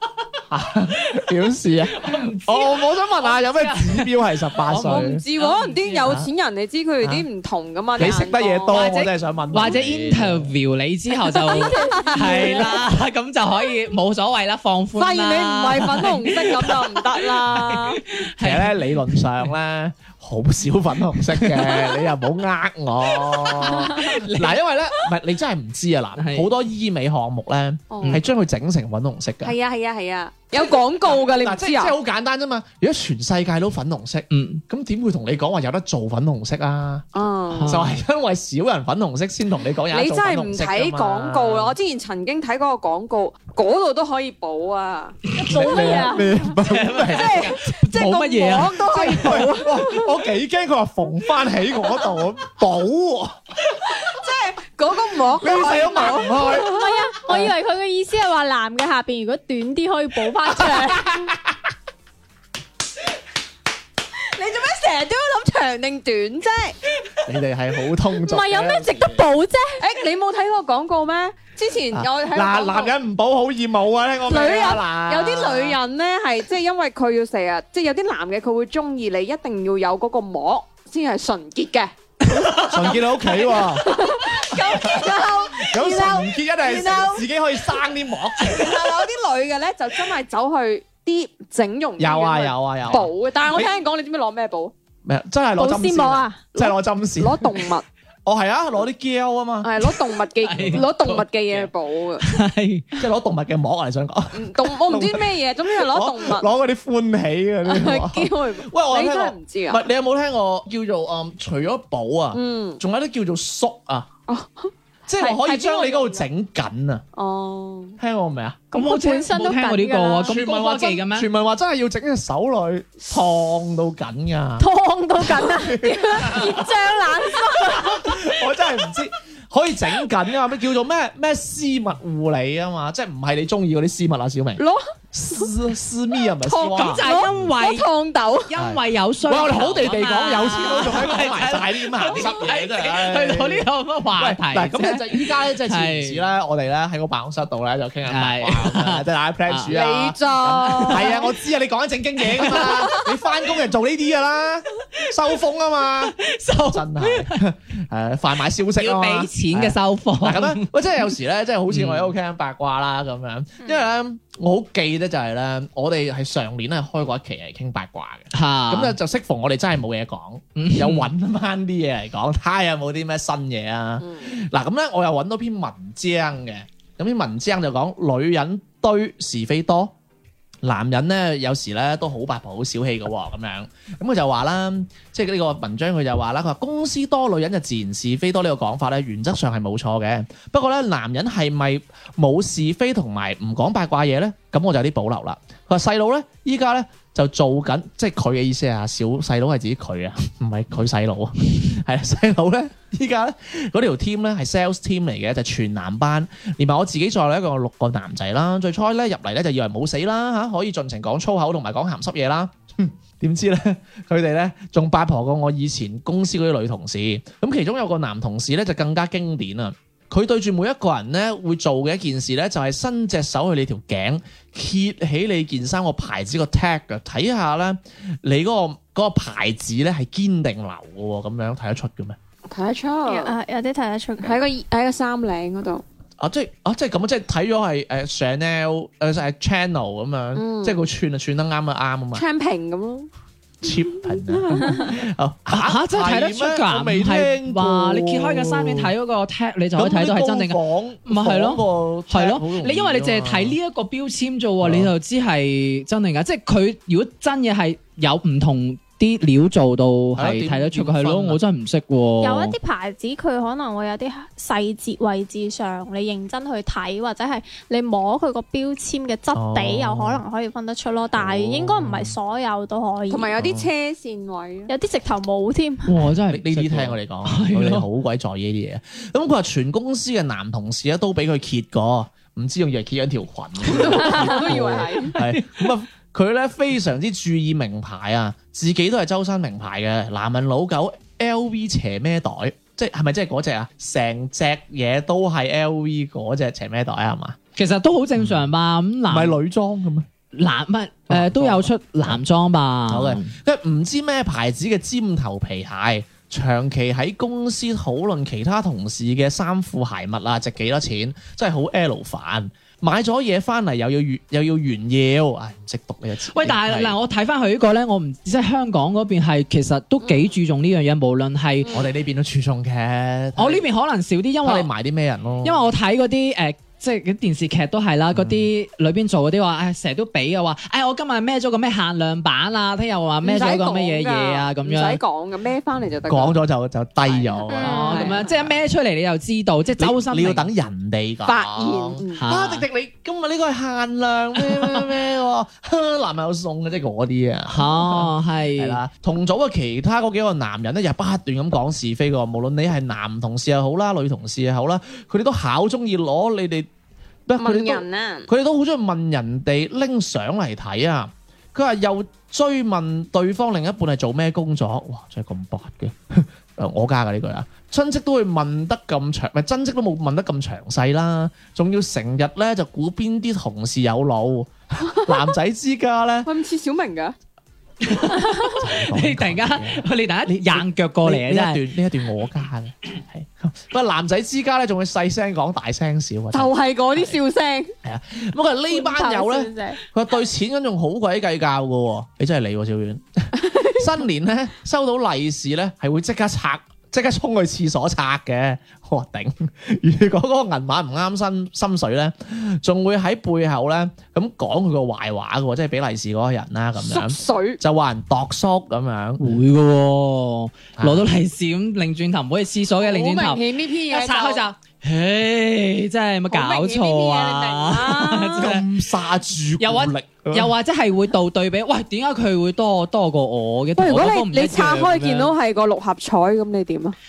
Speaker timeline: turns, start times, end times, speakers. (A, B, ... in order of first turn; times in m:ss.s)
0:00.5-0:05.2 A
0:01.9-0:06.1 B
0:04.8-0:08.8 C
0:06.0-0:06.3 A
0:07.0-0:07.2 A
0:08.0-0:10.5 A
0:08.7-0:19.2 B
0:11.3-0:12.8 C
0:11.4-0:12.8 D
0:15.0-0:18.0 C
0:18.4-0:29.6 A
0:21.3-0:21.8 B
0:23.4-0:24.6 B
0:26.2-0:26.5 B
0:27.9-0:28.2 C
0:29.4-0:32.0 C
0:30.6-0:41.8 A
0:34.3-0:34.6 B
0:37.1-0:37.8 C
0:37.5-0:38.0 B
0:39.9-0:45.2 C
0:45.3-0:49.4 B
0:45.3-0:46.5 D
0:45.5-0:47.5 A
0:47.0-0:50.1 C
0:48.7-0:53.4 A
0:53.8-0:56.9 C
0:55.3-0:56.7 A
0:56.6-1:01.3 D
0:57.3-0:57.5 A
1:00.6-1:01.6 A
1:04.3-1:06.8 C
1:07.2-1:09.3 A
1:08.2-1:09.7 D
1:09.8-1:12.9 C
1:11.9-1:15.8 A
1:14.2-1:27.3 C
1:22.6-1:23.9 A
1:24.5-1:28.9 A
1:28.4-1:34.7 C
1:32.0-1:33.7 A
1:35.0-1:37.6 A
1:35.6-1:36.4 D
1:36.5-1:37.8 C
1:38.2-1:39.7 A
1:39.6-1:42.2 C
1:40.4-1:40.9 B
1:40.6-1:41.7 A
1:42.2-1:42.8 B
1:43.0-1:54.1 A
1:44.3-1:46.5 C
1:47.6-1:49.9 C
1:52.3-1:52.8 C
1:54.3-1:54.7 C
1:55.1-1:57.0 A
1:55.2-1:56.2 D
1:57.2-1:58.0 C
1:58.0-1:58.7 A
1:58.7-2:00.4 D
1:58.7-2:01.3 B
2:00.2-2:04.7 A
2:04.6-2:08.1 D
2:05.5-2:06.6 A
2:05.8-2:07.6 C
2:07.7-2:14.6 A
2:15.1-2:17.5 A
2:16.4-2:18.5 C
2:16.8-2:17.9 B
2:18.5-2:26.2 B
2:18.6-2:36.2 A
2:28.1-2:29.7 B
2:29.7-2:31.2 C
2:30.7-2:31.2 B
2:32.3-2:32.6 B
2:36.2-2:37.4 B
2:36.7-2:59.9 A
2:38.8-2:40.7 B
2:41.7-2:42.1 B
2:48.3-2:49.0 B
2:50.6-2:51.1 B
2:54.0-2:54.3 C
3:00.6-3:52.2 A
3:52.5-3:53.3 C
3:53.1-3:54.4 D
3:54.2-3:55.8 C
3:56.2-4:02.2 A
4:00.3-4:00.8 C
4:02.1-4:03.1 C
4:03.6-4:08.9 A
4:04.1-4:04.9 C
4:05.5-4:22.5 B
4:09.8-4:13.6 A
4:14.6-4:14.9 A
4:20.2-4:21.4 A
4:22.2-4:33.3 D
4:29.3-4:30.2 A
4:31.1-4:32.1 A
4:33.1-4:34.7 C
4:33.3-4:33.7 A
4:34.7-4:35.9 D
4:35.8-4:37.9 B
4:36.3-4:57.4 A
4:43.7-4:45.1 C
4:43.9-4:44.7 D
4:45.1-4:45.7 B
4:57.6-4:59.4 B
4:58.2-4:58.5 A
4:59.1-5:00.1 A
5:00.3-5:03.4 B
5:01.1-5:02.2 A
5:02.9-5:17.0 A
5:16.3-5:21.7 B
5:20.0-5:20.4 C
5:21.6-5:21.9 C
5:21.7-5:23.6 A
5:23.4-5:24.7 B
5:24.4-5:25.7 A
5:25.4-5:35.0 B
5:28.1-5:28.5 A
5:33.2-5:36.4 C
5:36.1-5:38.6 A
5:37.0-5:38.3 C
5:37.5-5:38.1 D
5:37.7-5:40.5 B
5:39.8-5:56.7 A
5:41.2-5:42.2 C
5:42.2-5:42.6 B
5:44.5-5:44.8 B
5:47.5-5:48.8 B
5:57.3-6:16.3 A
5:57.4-5:58.3 C
6:16.2-6:17.1 C
6:17.8-6:21.6 B
6:18.1-6:27.2 A
6:26.3-6:27.7 C
6:27.8-6:49.4 A
6:28.7-6:29.8 D
6:33.4-6:33.8 C
6:46.8-6:47.6 C
6:49.2-6:58.6 B
6:50.8-6:51.1 A
6:52.8-6:54.4 C
6:56.3-6:58.5 C
6:58.4-7:00.5 A
6:59.6-7:05.3 B
7:03.8-7:07.0 C